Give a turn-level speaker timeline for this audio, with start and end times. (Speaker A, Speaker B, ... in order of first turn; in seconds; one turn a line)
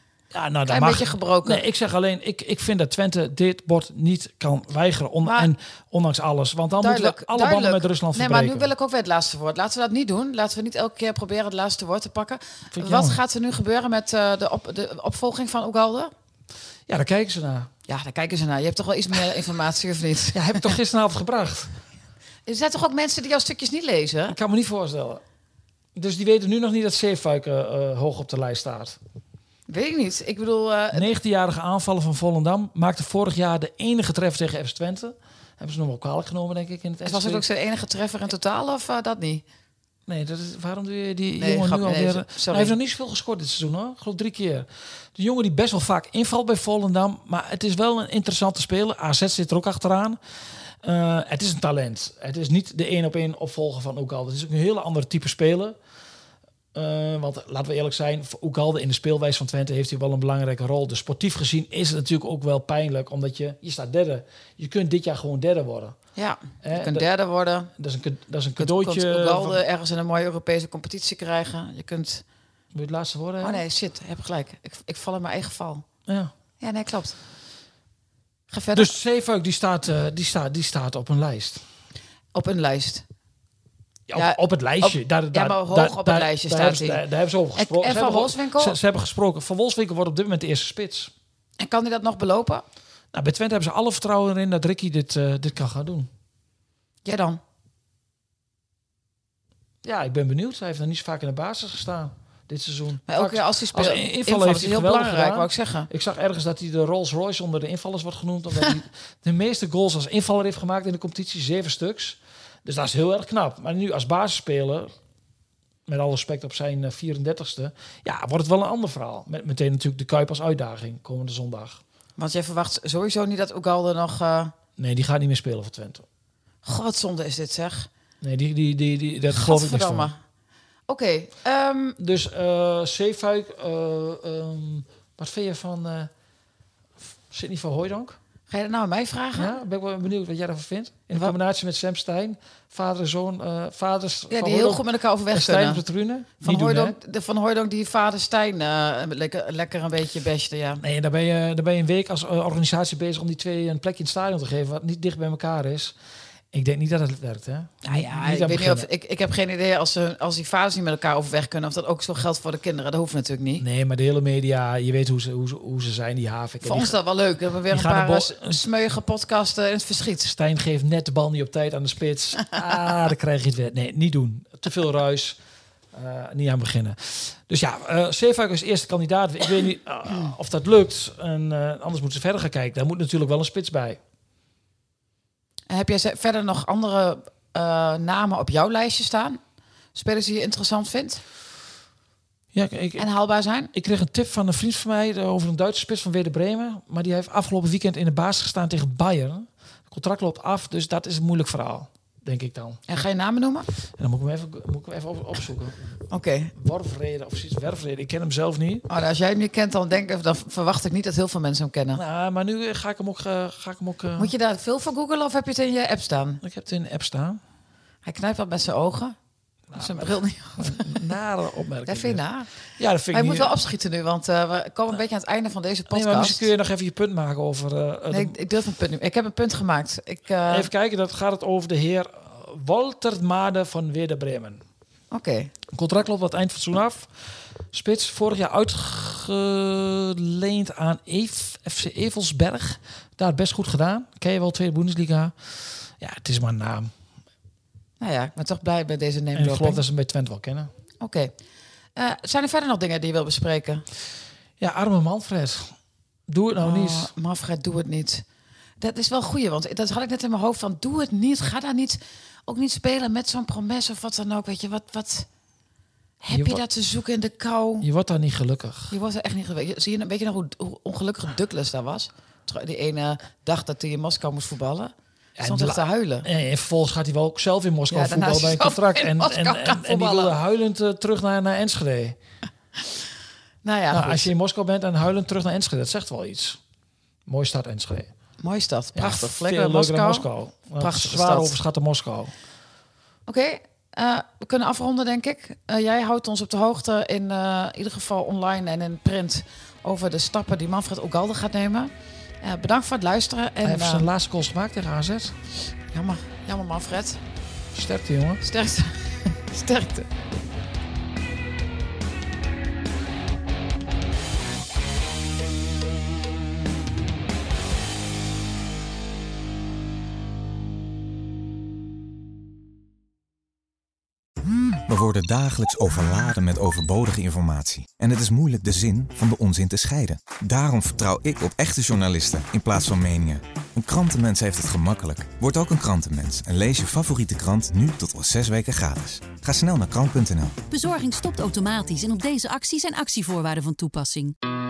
Speaker A: 0.3-8.7
Speaker B: 0.7-1.6
Speaker B: 5.2-5.5
Speaker B: 6.8-16.1
Speaker A: 12.7-13.2
Speaker A: 16.9-17.7
Speaker B: 17.9-20.7
Speaker A: 20.3-21.7
Speaker B: 22.4-24.4
Speaker A: 24.3-25.2
Speaker A: 25.9-29.0
Speaker B: 29.7-31.1
Speaker A: 30.9-37.5
Speaker B: 37.0-39.4
Speaker A: 40.1-50.2
Speaker B: 41.4-42.7
Speaker A: 50.8-55.8
Speaker A: 56.7-66.0
Speaker B: 66.2-67.7
Speaker A: 66.6-67.1
Speaker A: 67.8-69.6
Speaker B: 68.6-72.2
Speaker A: 72.7-73.6
Speaker B: 73.4-75.8
Speaker A: 76.1-76.3
Speaker B: 76.6-77.2
Speaker B: 78.5-78.9
Speaker A: 78.7-81.6
Speaker B: 82.3-83.0
Speaker A: 84.1-91.1
Speaker B: 84.1-87.0
Speaker B: 87.5-88.8
Speaker B: 91.6-92.6
Speaker A: 93.1-96.1
Speaker B: 97.0-97.4
Speaker A: 99.8-114.9
Speaker B: 103.1-105.9
Speaker A: 115.9-121.8
Speaker B: 122.2-124.5
Speaker A: 124.8-126.0
Speaker B: 126.6-127.9
Speaker A: 128.2-130.1
Speaker B: 129.3-130.2
Speaker B: 130.9-132.0
Speaker A: 132.0-136.1
Speaker A: 137.3-138.2
Speaker B: 138.5-139.6
Speaker A: 139.3-146.9
Speaker B: 144.3-145.8
Speaker B: 146.4-150.8
Speaker A: 150.8-155.9
Speaker A: 156.5-158.9
Speaker B: 157.8-163.6
Speaker A: 163.6-166.9
Speaker B: 166.6-170.3
Speaker A: 167.7-168.6
Speaker A: 170.2-175.4
Speaker A: 175.9-184.0
Speaker B: 185.7-189.4
Speaker B: 189.9-191.2
Speaker A: 192.5-193.1
Speaker B: 193.0-193.7
Speaker A: 193.7-202.8
Speaker B: 202.9-203.7
Speaker A: 204.0-206.0
Speaker B: 206.1-206.5
Speaker A: 206.5-208.9
Speaker B: 208.9-212.0
Speaker A: 211.9-214.3
Speaker B: 214.2-216.4
Speaker A: 216.4-217.4
Speaker B: 218.0-219.2
Speaker A: 219.7-222.2
Speaker B: 219.7-221.0
Speaker B: 221.8-222.5
Speaker A: 222.8-223.6
Speaker B: 223.1-226.5
Speaker A: 225.9-228.4
Speaker B: 228.1-230.7
Speaker A: 230.4-234.6
Speaker B: 235.1-235.5
Speaker A: 235.7-237.1
Speaker A: 237.7-245.3
Speaker A: 246.0-246.9
Speaker B: 248.0-249.8
Speaker A: 249.3-250.7
Speaker B: 251.0-251.3
Speaker B: 251.9-253.8
Speaker A: 254.6-255.7
Speaker A: 256.3-257.1
Speaker B: 256.6-258.2
Speaker B: 258.8-265.3
Speaker B: 266.2-267.9
Speaker A: 266.3-266.6
Speaker A: 267.8-268.9
Speaker B: 268.9-276.3
Speaker A: 275.4-282.2
Speaker B: 277.9-280.4
Speaker B: 283.6-284.3
Speaker A: 283.9-286.6
Speaker A: 287.2-288.1
Speaker B: 288.4-290.3
Speaker A: 288.9-292.3
Speaker B: 290.8-291.5
Speaker B: 293.3-301.9
Speaker B: 302.4-304.1
Speaker A: 303.6-305.4
Speaker B: 305.9-307.2
Speaker A: 307.7-308.4
Speaker B: 308.4-310.1
Speaker C: 324.9-340.6
Speaker D: 340.7-344.3